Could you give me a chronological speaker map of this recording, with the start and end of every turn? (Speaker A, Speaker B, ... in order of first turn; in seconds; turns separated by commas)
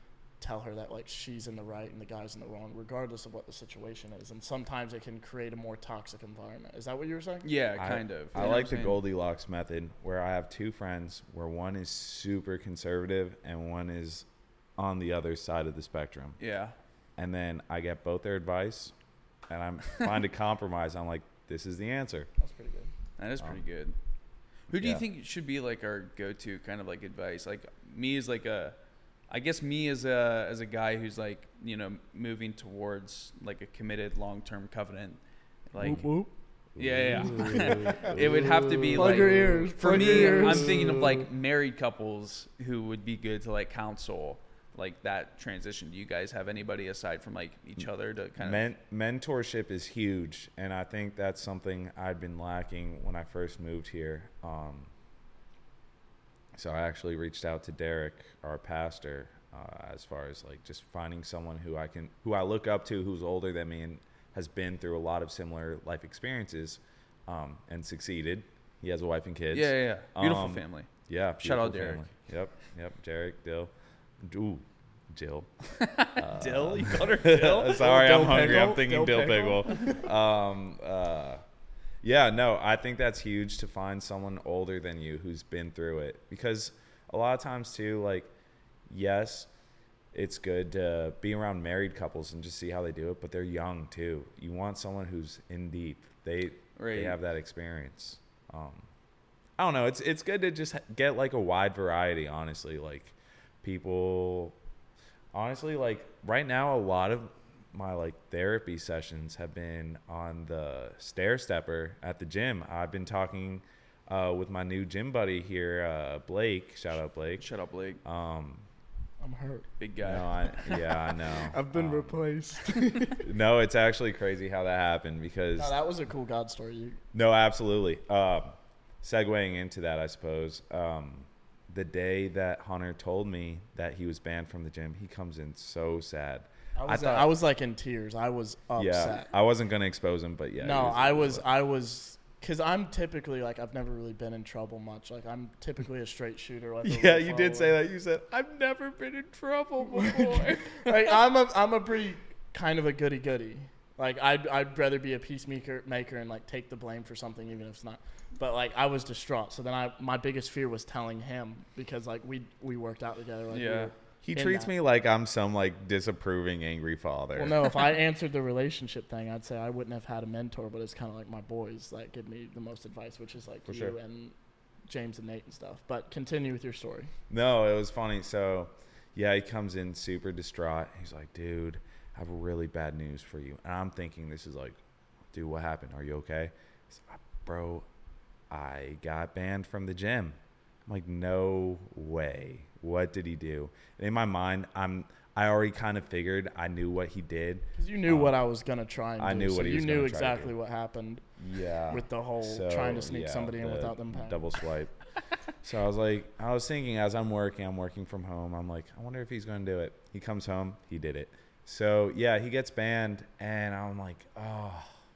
Speaker A: 0.4-7.5, Speaker B: 7.4-9.0, Speaker C: 7.8-16.4, Speaker B: 16.4-16.8, Speaker C: 17.2-18.9, Speaker C: 19.5-22.3, Speaker A: 22.4-22.9, Speaker B: 23.2-24.0, Speaker B: 24.7-28.8, Speaker C: 24.7-25.0, Speaker B: 29.3-36.1, Speaker A: 35.9-36.3, Speaker C: 36.8-41.0, Speaker B: 36.8-48.6, Speaker A: 37.6-38.2, Speaker A: 39.0-41.2, Speaker C: 48.4-54.9, Speaker C: 56.5-81.4, Speaker B: 69.5-72.1, Speaker B: 75.8-77.8, Speaker A: 77.8-80.0, Speaker C: 82.0-88.3, Speaker C: 88.9-89.5, Speaker C: 90.1-98.9, Speaker B: 96.8-97.2, Speaker C: 99.6-104.6, Speaker C: 105.3-117.5, Speaker B: 117.4-118.0, Speaker C: 118.0-118.7, Speaker A: 119.2-119.7, Speaker B: 119.8-120.6, Speaker C: 120.0-122.2, Speaker A: 120.6-123.3, Speaker C: 123.2-125.8, Speaker A: 125.6-127.0, Speaker C: 127.1-137.3, Speaker A: 136.8-139.3, Speaker C: 138.8-141.4, Speaker A: 140.6-147.8, Speaker C: 146.8-151.2, Speaker A: 150.2-164.7, Speaker B: 163.5-163.9, Speaker C: 164.2-167.7, Speaker A: 167.4-174.3, Speaker C: 173.7-174.0, Speaker A: 174.9-177.1, Speaker C: 177.3-184.8, Speaker C: 185.3-187.9, Speaker C: 188.5-198.4, Speaker A: 197.8-201.2, Speaker C: 199.2-200.6, Speaker C: 201.4-204.9, Speaker A: 201.9-204.6, Speaker C: 205.6-214.9